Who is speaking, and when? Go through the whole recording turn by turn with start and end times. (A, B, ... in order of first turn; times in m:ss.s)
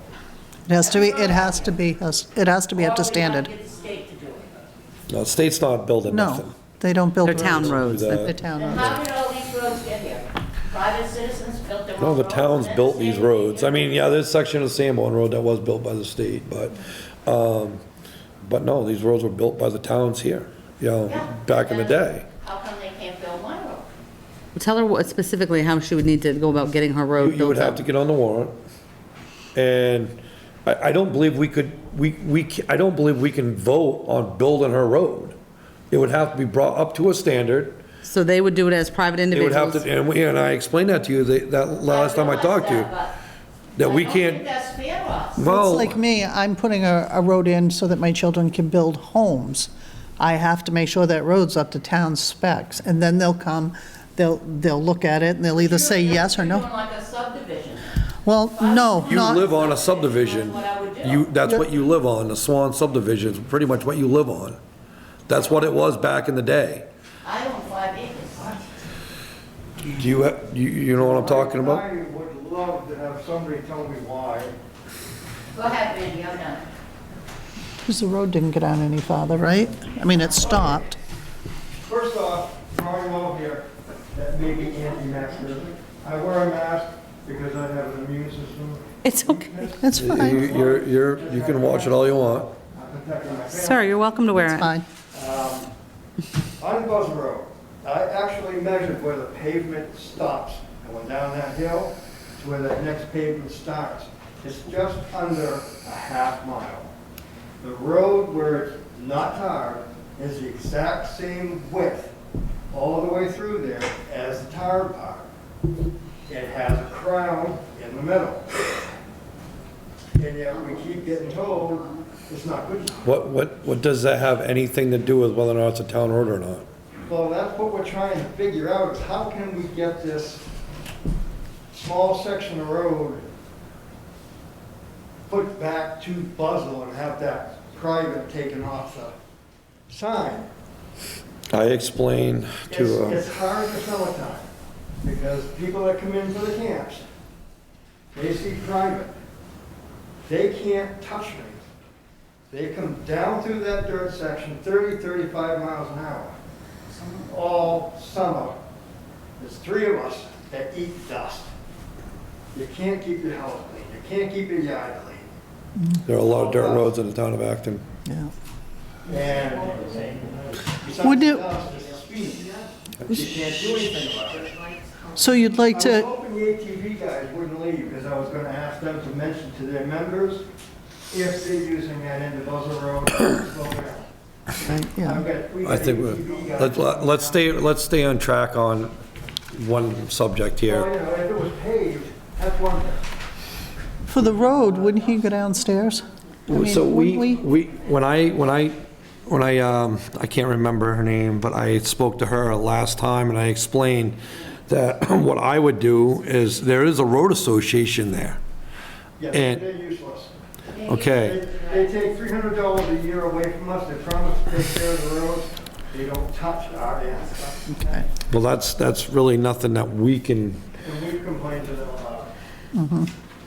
0:00.7-0:03.5 A
0:00.8-0:01.8 B
0:02.7-0:04.6 B
0:05.1-0:06.6 C
0:06.1-0:09.0 A
0:07.2-0:08.3 D
0:07.3-0:08.4 C
0:08.6-0:13.9 B
0:12.0-0:17.8 C
0:18.4-0:22.3 C
0:21.1-0:23.9 B
0:24.5-0:27.8 D
0:27.2-0:28.6 C
0:29.6-0:35.4 C
0:35.9-0:37.8 C
0:38.0-0:39.9 D
0:39.3-0:42.9 C
0:41.9-0:43.1 B
0:43.8-0:44.5 C
0:43.8-0:45.5 B
0:45.4-0:46.0 C
0:45.4-0:56.6 A
0:55.6-1:01.3 B
0:58.2-0:59.4 A
0:59.0-1:04.6 C
1:05.3-1:06.9 C
1:07.2-1:08.5 B
1:09.9-1:11.8 C
1:10.9-1:14.6 E
1:15.5-1:16.7 B
1:17.9-1:21.0 A
1:20.1-1:20.7 B
1:21.8-1:34.2 E
1:29.0-1:29.6 D
1:29.8-1:30.5 A
1:29.9-1:32.5 C
1:33.5-1:34.7 D
1:34.3-1:34.9 A
1:35.1-1:35.7 E
1:36.6-1:46.9 E
1:47.6-1:52.2 E
1:52.7-1:55.3 E
1:56.3-1:58.8 E
2:00.2-2:03.0 E
2:03.0-2:06.7 C
2:07.1-2:10.4 E
2:11.7-2:13.3 E
2:15.3-2:19.1 E
2:19.9-2:20.5 E
2:21.5-2:23.2 C
2:22.7-2:24.5 E
2:25.0-2:27.0 E
2:28.1-2:29.1 E
2:30.2-2:31.6 E
2:32.5-2:36.4 E
2:37.3-2:38.6 E
2:39.4-2:41.5 E
2:42.5-2:45.3 E
2:46.0-2:47.8 C
2:46.2-2:46.9 E
2:48.1-2:48.3 A
2:49.0-2:54.5 E
2:51.0-2:51.5 A
2:55.2-2:56.1 A
2:55.7-3:00.4 E
3:01.1-3:04.1 E
3:04.6-3:05.3 A
3:05.0-3:07.5 E
3:05.6-3:08.9 C
3:09.5-3:10.9 C
3:10.6-3:13.1 E
3:14.1-3:17.4 A
3:14.3-3:14.9 E
3:16.5-3:28.4 C
3:29.2-3:30.3 E
3:29.3-3:29.6 C
3:30.7-3:31.7 B
3:30.8-3:31.4 C
3:31.2-3:38.0 E
3:38.3-3:40.6 C
3:40.8-3:42.3 E
3:42.8-3:43.1 A